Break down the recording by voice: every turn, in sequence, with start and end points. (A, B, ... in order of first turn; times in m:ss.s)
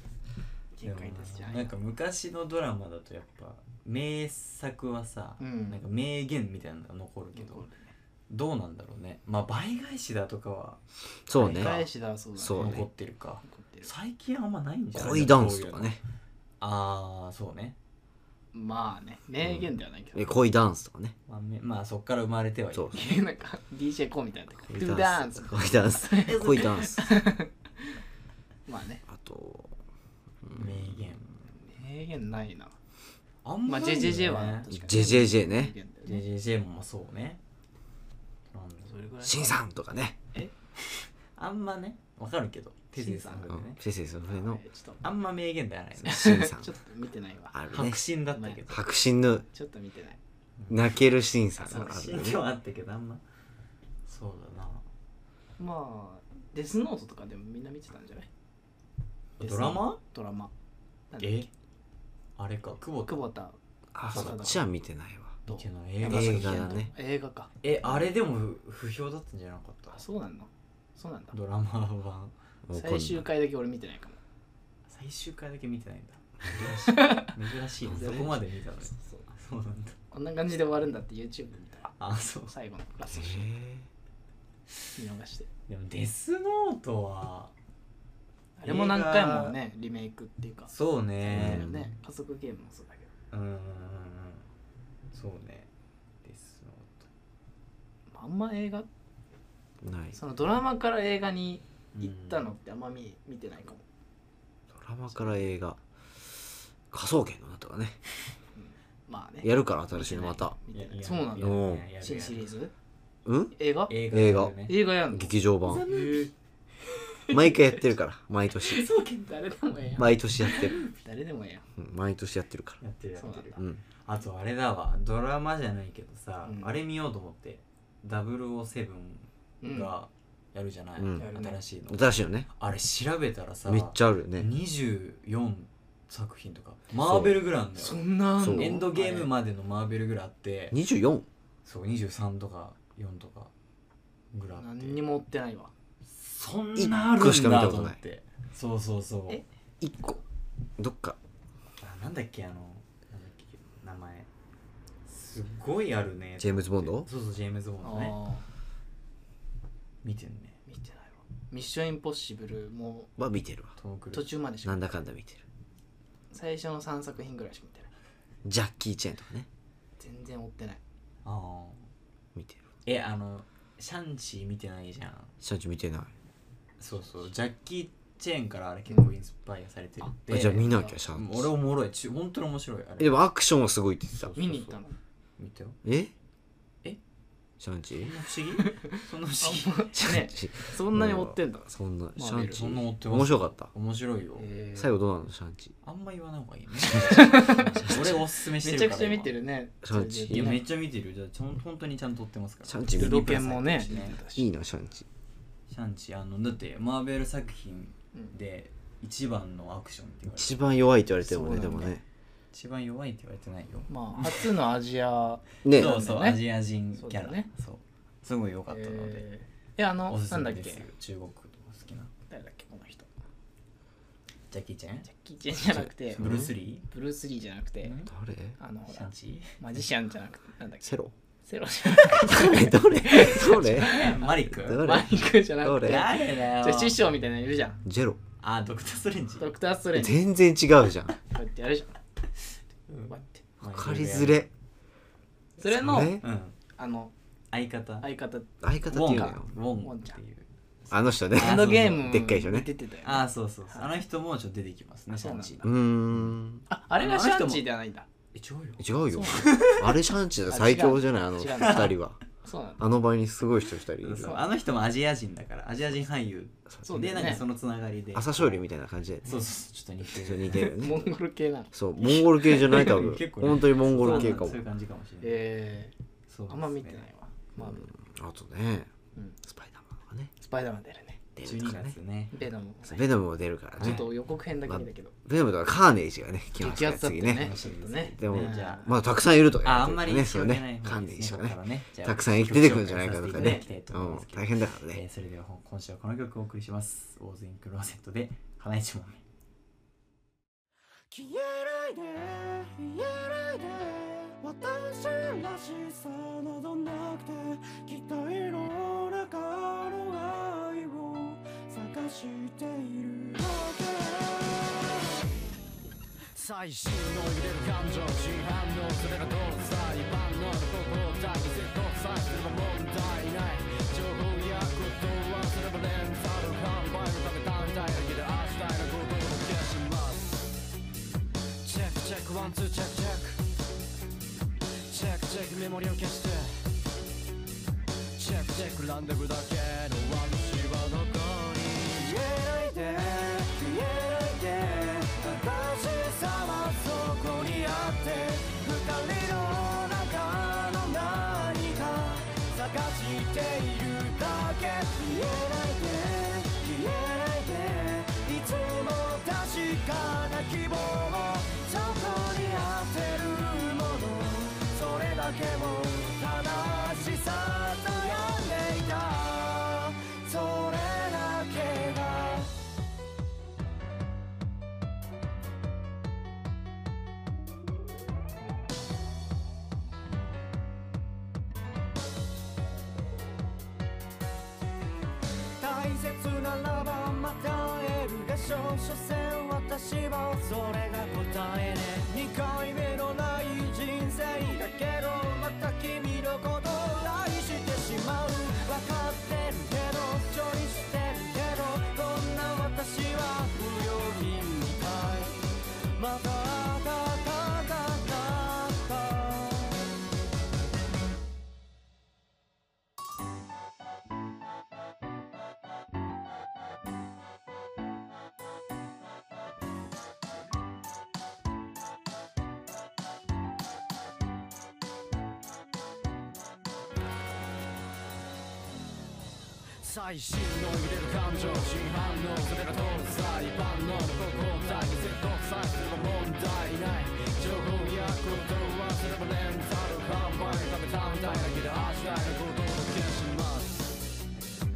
0:00.7-0:01.7 A
0:00.8-0:07.6 B
0:05.4-0:05.8 A
0:07.3-0:07.9 A
0:08.3-0:11.9 B
0:11.3-0:11.8 C
0:11.4-0:12.8 A
0:12.4-0:12.8 C
0:12.5-0:16.0 B
0:13.4-0:13.9 A
0:14.9-0:16.0 C
0:16.6-0:17.8 B
0:18.5-0:20.4 A
0:19.4-0:21.1 C
0:21.3-0:23.2 B
0:22.9-0:27.8 A
0:24.7-0:27.2 C
0:26.2-0:26.8 B
0:28.7-0:29.0 A
0:29.1-0:29.8 C
0:30.4-0:31.0 C
0:30.5-0:31.4 B
0:31.6-0:32.7 A
0:33.4-0:34.7 B
0:33.7-0:36.2 A
0:34.7-0:35.7 C
0:36.0-0:37.4 B
0:38.5-0:38.9 B
0:38.9-0:39.6 A
0:39.2-0:40.2 C
0:40.9-0:43.8 B
0:43.0-0:43.6 A
0:43.5-0:44.6 C
0:44.3-0:45.0 A
0:45.0-0:46.3 B
0:46.0-0:47.5 A
0:46.1-0:46.7 C
0:47.5-0:48.0 C
0:47.7-0:48.8 B
0:48.3-0:48.6 A
0:48.7-0:49.4 C
0:49.5-0:50.2 A
0:50.7-0:52.4 C
0:51.6-0:52.2 A
0:51.7-0:53.2 B
0:54.1-0:54.8 B
0:55.6-0:58.3 A
0:59.4-1:00.0 B
0:59.4-1:00.5 A
1:01.1-1:01.5 A
1:01.2-1:01.5 B
1:02.4-1:03.2 B
1:03.1-1:04.7 A
1:03.9-1:05.4 C
1:05.5-1:06.9 B
1:05.5-1:07.5 A
1:06.0-1:06.9 C
1:07.6-1:10.0 B
1:10.0-1:11.3 A
1:11.3-1:12.3 B
1:12.6-1:13.3 C
1:12.7-1:14.2 A
1:14.9-1:20.0 B
1:16.9-1:17.3 A
1:17.9-1:19.2 A
1:17.9-1:18.2 C
1:20.1-1:21.9 A
1:22.0-1:22.5 B
1:22.5-1:23.5 A
1:23.1-1:23.9 C
1:25.0-1:25.5 A
1:25.7-1:27.5 B
1:28.6-1:30.7 A
1:28.6-1:29.6 B
1:30.7-1:31.9 B
1:31.2-1:33.1 A
1:31.3-1:31.8 C
1:33.3-1:34.5 B
1:35.1-1:35.7 B
1:36.2-1:37.1 B
1:38.1-1:38.9 A
1:39.8-1:40.2 C
1:40.1-1:43.8 A
1:41.9-1:42.4 B
1:44.7-1:48.0 C
1:48.5-1:52.7 A
1:49.4-1:50.6 C
1:50.7-1:52.6 B
1:51.4-1:51.8 C
1:53.2-1:53.5 C
1:53.6-1:56.3 A
1:53.9-1:54.8 B
1:54.1-1:55.9 C
1:55.6-1:56.3 B
1:56.8-1:57.9 A
1:57.3-1:58.8 C
1:58.6-2:01.6 A
1:58.7-1:59.3 B
2:00.0-2:00.8 C
2:00.4-2:00.9 B
2:01.8-2:02.8 C
2:02.8-2:18.0 B
2:03.2-2:03.6 A
2:06.4-2:06.7 A
2:09.6-2:09.9 A
2:11.0-2:11.3 C
2:11.1-2:11.6 A
2:11.9-2:12.5 C
2:13.6-2:14.5 C
2:17.0-2:17.4 C
2:17.8-2:19.3 A
2:18.4-2:18.7 C
2:18.5-2:20.8 B
2:20.7-2:21.3 C
2:21.6-2:23.5 B
2:24.3-2:25.0 B
2:24.6-2:25.7 A
2:26.1-2:29.4 B
2:26.8-2:28.0 C
2:29.8-2:30.2 C
2:30.8-2:31.2 C
2:31.8-2:34.3 B
2:35.0-2:38.2 B
2:36.4-2:37.1 C
2:37.8-2:38.4 A
2:40.0-2:40.6 B
2:40.7-2:43.1 A
2:43.2-2:43.7 C
2:43.8-2:44.3 B
2:44.1-2:45.0 A
2:44.6-2:45.4 C
2:46.3-2:47.9 A
2:48.4-2:49.5 C
2:50.0-2:50.8 A
2:51.2-2:51.9 B
2:52.3-2:52.6 C
2:52.8-2:55.3 B
2:55.4-2:56.1 C
2:56.8-3:03.2 B
3:00.2-3:01.5 C
3:00.5-3:00.9 A
3:03.0-3:04.7 C
3:04.3-3:05.0 A
3:05.4-3:05.8 B
3:05.8-3:06.1 C
3:07.6-3:08.1 C
3:08.0-3:09.9 B
3:08.6-3:12.8 A
3:10.0-3:13.7 C
3:12.5-3:14.5 B
3:14.4-3:14.9 A
3:14.8-3:15.7 C
3:15.8-3:19.3 B
3:17.1-3:20.6 A
3:19.8-3:20.6 C
3:20.3-3:24.2 B
3:22.7-3:23.5 C
3:22.9-3:24.5 A
3:24.1-3:25.1 C
3:25.7-3:30.6 B
3:30.3-3:32.0 C
3:31.2-3:32.0 A
3:32.5-3:34.4 B
3:33.9-3:36.4 A
3:35.6-3:35.9 C
3:35.7-3:39.2 B
3:36.9-3:37.5 A
3:38.7-3:40.8 A
3:40.1-3:42.1 B
3:42.3-3:43.1 A
3:44.5-3:45.1 B
3:45.1-3:46.2 A
3:45.6-3:46.5 C
3:46.1-3:46.9 B
3:46.9-3:48.0 A
3:47.8-3:48.1 B
3:48.1-3:48.6 C
3:48.6-3:57.8 A
3:48.9-3:49.6 B
3:50.8-3:51.1 C
3:52.1-3:56.1 C
3:53.6-3:54.8 B
3:55.8-3:57.0 B
3:57.8-3:58.2 C
3:58.4-3:59.5 B
3:59.4-4:00.2 A
3:59.9-4:01.2 C
4:01.2-4:02.0 A
4:02.9-4:04.4 B
4:03.1-4:03.4 A
4:03.6-4:04.5 C
4:05.6-4:07.1 A
4:05.7-4:06.2 C
4:06.0-4:06.6 B
4:07.5-4:08.1 B
4:08.0-4:10.2 A
4:08.6-4:09.5 C
4:08.9-4:12.1 B
4:10.9-4:12.7 C
4:11.3-4:13.9 A
4:13.0-4:15.7 B
4:15.1-4:15.7 A
4:15.6-4:16.6 C
4:16.7-4:18.1 A
4:16.9-4:17.6 B
4:18.3-4:19.8 B
4:18.8-4:22.2 C
4:19.1-4:19.5 A
4:20.5-4:22.8 A
4:21.6-4:21.9 B
4:22.8-4:24.4 C
4:24.0-4:28.6 B
4:26.8-4:27.4 A
4:28.1-4:29.4 C
4:29.2-4:30.7 B
4:30.1-4:31.1 C
4:30.5-4:33.0 A
4:31.7-4:34.6 C
4:32.6-4:35.4 B
4:34.0-4:34.5 A
4:35.2-4:35.9 A
4:36.3-4:37.1 B
4:36.5-4:37.9 A
4:37.6-4:38.9 C
4:39.4-4:40.3 C
4:40.4-4:41.2 A
4:41.4-4:41.9 C
4:41.4-4:42.3 B
4:42.3-4:43.1 A
4:42.8-4:44.0 C
4:43.8-4:45.1 A
4:43.8-4:44.1 B
4:44.6-4:47.6 C
4:46.6-4:49.0 A
4:47.3-4:48.9 B
4:48.2-4:55.0 C
4:49.6-4:59.2 B
4:53.3-4:53.7 A
5:01.1-5:15.1 D
5:16.3-5:30.5 D
5:31.6-5:33.4 D
5:34.8-5:36.7 D
5:38.2-6:12.5 D
6:25.6-6:49.8 D
7:09.8-7:24.0 D